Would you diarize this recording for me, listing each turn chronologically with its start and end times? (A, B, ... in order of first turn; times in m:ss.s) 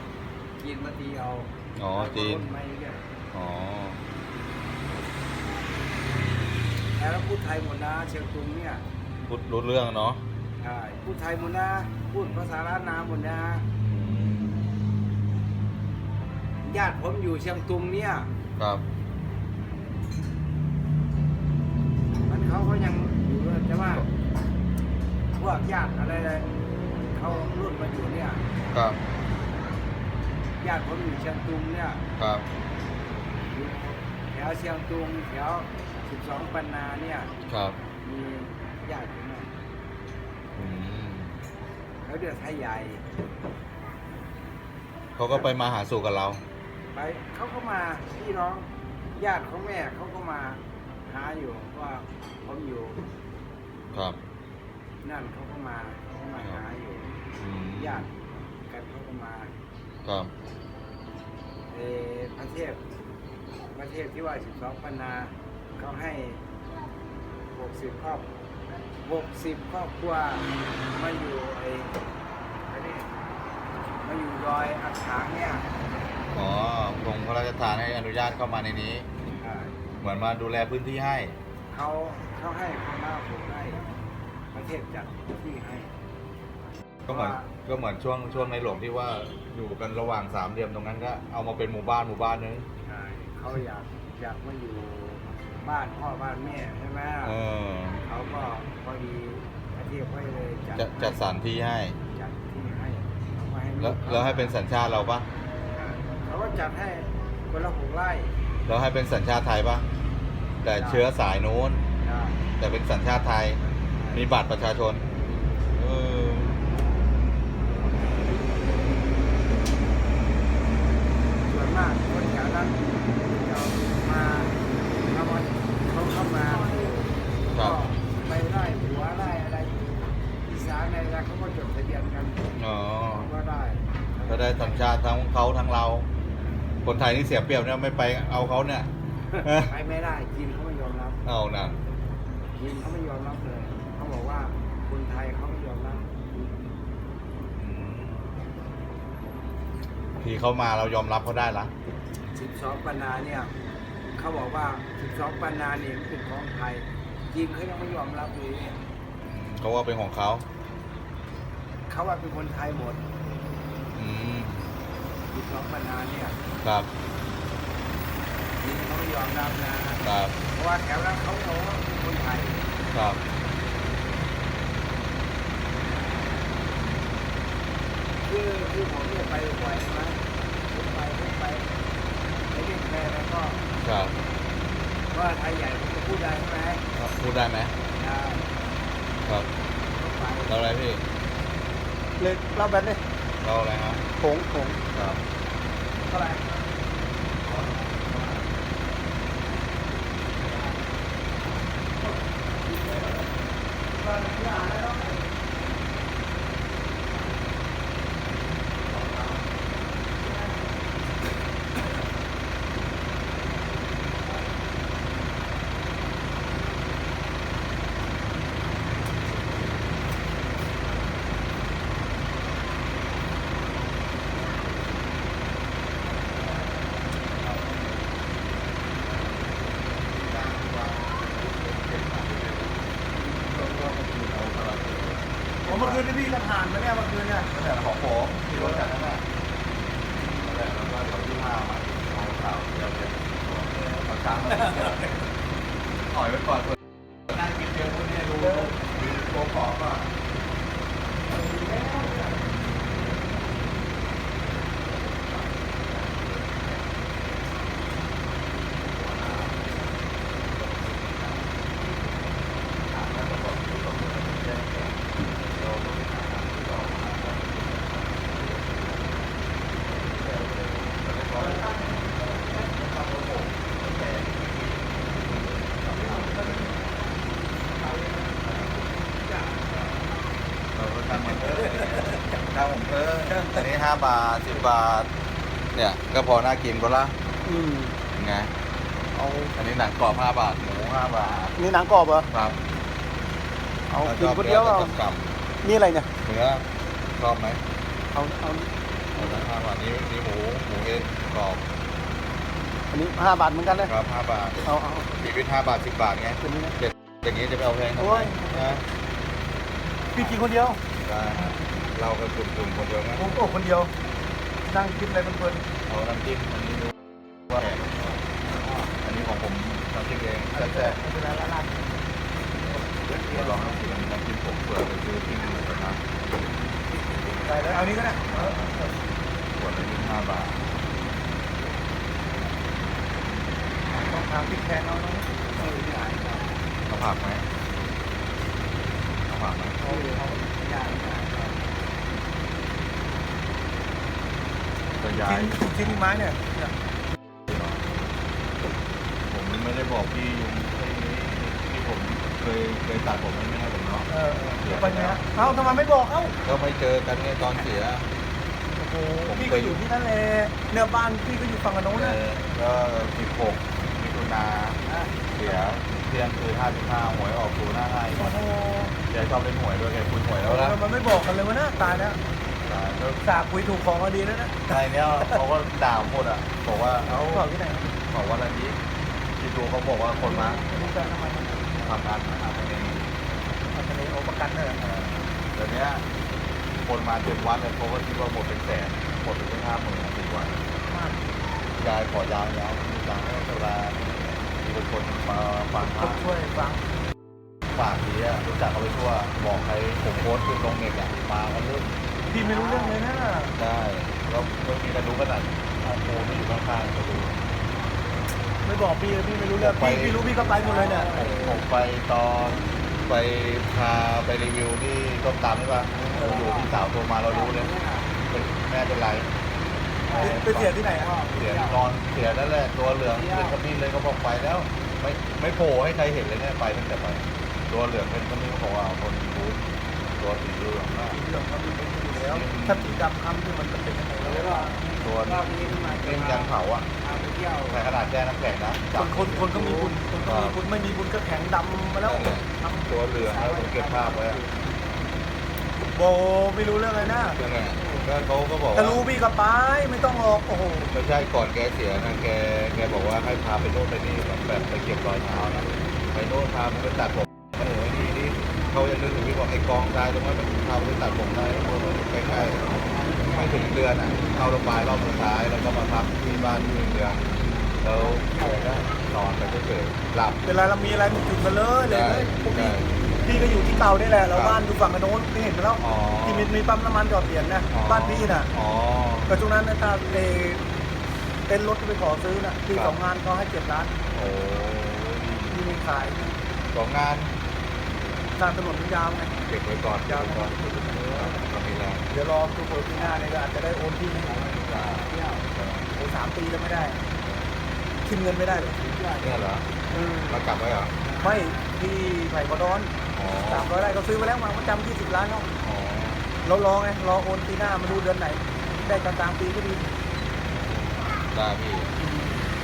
0:00.6-0:03.0 A
0:01.8-0:02.5 B
0:03.3-0:04.0 B
0:07.0-0:08.8 A
0:09.3-0:10.2 B
0:10.6-0:13.6 A
0:13.9-0:14.7 B
0:16.6-0:18.3 A
0:18.6-0:18.8 B
0:22.3-0:24.1 A
0:25.3-0:26.5 A
0:27.1-0:28.4 A
0:28.7-0:29.0 B
0:30.6-0:32.0 A
0:32.2-0:32.4 B
0:33.5-0:37.3 A
0:37.5-0:37.8 B
0:38.0-0:39.5 A
0:40.5-0:41.4 B
0:42.0-0:43.0 A
0:45.2-0:46.4 B
0:46.9-0:53.0 A
0:53.9-0:54.2 B
0:55.0-0:57.1 A
0:57.4-0:58.1 B
0:57.8-0:58.2 A
0:58.7-0:59.5 A
1:00.0-1:00.3 B
1:01.7-1:02.8 A
1:03.7-1:06.4 A
1:07.5-1:08.3 A
1:09.0-1:11.9 A
1:12.7-1:13.1 A
1:14.0-1:15.7 A
1:16.3-1:19.1 B
1:19.4-1:19.8 A
1:20.0-1:21.4 B
1:21.7-1:23.8 A
1:24.5-1:25.9 A
1:27.0-1:32.7 B
1:27.1-1:27.5 A
1:32.8-1:37.4 A
1:37.2-1:38.0 B
1:38.0-1:41.2 A
1:40.8-1:42.0 B
1:42.1-1:44.5 A
1:43.8-1:45.3 B
1:45.7-1:48.3 A
1:48.6-1:49.9 B
1:50.6-1:51.8 B
1:50.7-1:51.0 A
1:52.0-1:52.4 A
1:52.6-1:53.6 B
1:53.9-1:54.2 A
1:54.1-1:55.0 B
1:55.7-1:56.6 B
2:01.4-2:12.4 A
2:12.6-2:13.3 B
2:13.1-2:14.8 A
2:14.3-2:16.1 B
2:16.8-2:18.9 B
2:19.3-2:21.2 A
2:19.4-2:19.7 B
2:21.2-2:21.8 B
2:22.5-2:26.6 A
2:27.6-2:28.3 B
2:30.2-2:31.7 B
2:32.3-2:33.5 A
2:34.2-2:38.8 A
2:39.2-2:40.4 B
2:41.9-2:43.0 A
2:43.9-2:44.6 B
2:45.3-2:46.4 A
2:46.6-2:46.9 B
2:48.6-2:52.7 A
2:50.0-2:50.4 B
2:52.9-2:53.2 B
2:58.2-3:01.7 A
3:02.5-3:03.6 A
3:03.8-3:04.1 B
3:05.1-3:06.8 A
3:06.9-3:07.7 B
3:07.9-3:08.4 A
3:09.2-3:09.5 B
3:09.9-3:10.6 A
3:10.5-3:11.0 B
3:12.2-3:13.0 C
3:13.4-3:14.1 B
3:14.2-3:14.8 C
3:14.9-3:15.2 B
3:16.0-3:16.6 C
3:17.4-3:18.3 C
3:22.6-3:23.2 C
3:23.9-3:25.2 C
3:47.4-3:47.8 B
3:50.2-3:56.0 B
3:55.6-3:57.5 C
3:57.5-3:59.2 B
4:00.4-4:05.2 B
4:06.1-4:10.1 B
4:11.6-4:12.2 C
4:15.9-4:16.7 B
4:19.0-4:19.9 B
4:20.6-4:20.9 B
4:22.9-4:28.6 B
4:29.9-4:31.7 B
4:32.4-4:34.3 B
4:35.1-4:36.9 B
4:38.2-4:38.9 B
4:40.7-4:45.1 B
4:45.7-4:47.2 B
4:47.4-4:48.0 C
4:48.1-4:48.5 B
4:49.2-4:49.5 C
4:49.5-4:51.6 B
4:51.6-4:52.3 C
4:52.3-4:52.6 B
4:53.9-4:54.9 C
4:54.0-4:55.4 B
4:55.6-4:56.1 C
4:56.2-4:57.6 B
4:58.1-4:58.7 C
4:59.1-5:01.6 B
5:02.9-5:03.9 C
5:03.8-5:08.8 B
5:04.6-5:05.1 C
5:06.4-5:06.8 C
5:08.0-5:08.8 C
5:10.1-5:10.8 C
5:11.0-5:13.4 B
5:13.1-5:13.9 C
5:14.6-5:15.6 C
5:15.8-5:16.9 B
5:17.5-5:18.0 B
5:18.6-5:18.9 A
5:19.0-5:21.0 B
5:20.5-5:21.8 C
5:23.0-5:23.7 A
5:23.2-5:26.0 B
5:27.4-5:29.1 C
5:29.6-5:30.6 B
5:33.9-5:35.3 C
5:35.4-5:36.4 A
5:36.8-5:37.4 B
5:39.3-5:39.8 B
5:39.8-5:40.4 C
5:39.8-5:41.6 A
5:45.0-5:45.5 B
5:45.2-5:46.7 C
5:47.5-5:47.8 B
5:49.3-5:54.1 B
5:54.1-5:56.3 C
5:54.6-5:55.8 B
5:56.4-5:58.1 B
5:58.8-6:02.2 C
5:59.2-5:59.8 B
6:01.9-6:04.8 B
6:04.8-6:05.1 A
6:05.4-6:08.4 B
6:08.2-6:08.9 C
6:09.1-6:10.8 B
6:10.4-6:12.2 C
6:12.6-6:13.2 B
6:13.2-6:15.4 C
6:14.7-6:17.4 B
6:17.0-6:17.9 C
6:18.1-6:18.8 B
6:19.4-6:20.6 B
6:20.2-6:21.8 C
6:21.8-6:23.0 B
6:23.7-6:24.9 C
6:24.8-6:26.0 B
6:26.8-6:30.6 B
6:30.9-6:31.2 C
6:31.8-6:36.3 B
6:35.8-6:36.8 C
6:37.7-6:41.9 B
6:42.3-6:43.5 C
6:42.3-6:43.0 A
6:43.6-6:47.3 B
6:48.6-6:51.1 C
6:49.5-6:50.3 B
6:50.3-6:51.6 A
6:51.1-6:57.7 B
6:55.9-6:56.7 A
6:56.1-6:56.5 C
6:57.2-6:58.1 A
6:58.3-6:59.3 B
7:00.0-7:00.7 B
7:00.0-7:01.8 A
7:00.1-7:01.1 C
7:01.3-7:09.6 B
7:03.1-7:03.6 A
7:10.2-7:11.2 B
7:11.1-7:14.8 C
7:12.2-7:13.1 B
7:14.2-7:17.8 A
7:14.2-7:16.9 B
7:17.7-7:19.7 B
7:18.9-7:22.9 C
7:19.5-7:20.0 A
7:20.2-7:20.6 B
7:22.0-7:24.4 B
7:23.3-7:24.6 A
7:25.9-7:27.4 C
7:27.3-7:29.0 B
7:28.7-7:30.9 C
7:30.9-7:47.2 B
7:42.2-7:43.7 A
7:47.8-7:50.4 B
7:48.0-7:48.8 A
7:50.4-7:58.5 C
7:51.9-7:52.9 B
7:54.3-7:54.6 B
7:55.8-7:56.5 B
7:57.7-7:59.4 B
7:59.3-8:00.6 C
8:01.5-8:04.0 C
8:02.7-8:03.0 B
8:04.1-8:05.7 B
8:05.5-8:06.4 C
8:06.7-8:07.4 B
8:08.3-8:09.3 C
8:09.5-8:12.0 B
8:10.0-8:11.4 C
8:12.1-8:14.6 C
8:12.9-8:13.2 A
8:14.2-8:15.4 A
8:14.6-8:15.9 B
8:15.9-8:17.0 C
8:18.0-8:18.7 C
8:18.5-8:19.5 A
8:19.2-8:19.6 B
8:19.9-8:20.4 C
8:20.3-8:20.9 B
8:21.0-8:21.5 A
8:21.2-8:22.9 C
8:23.1-8:23.7 B
8:23.4-8:25.5 C
8:25.6-8:26.2 B
8:26.4-8:29.9 C
8:30.5-8:32.0 B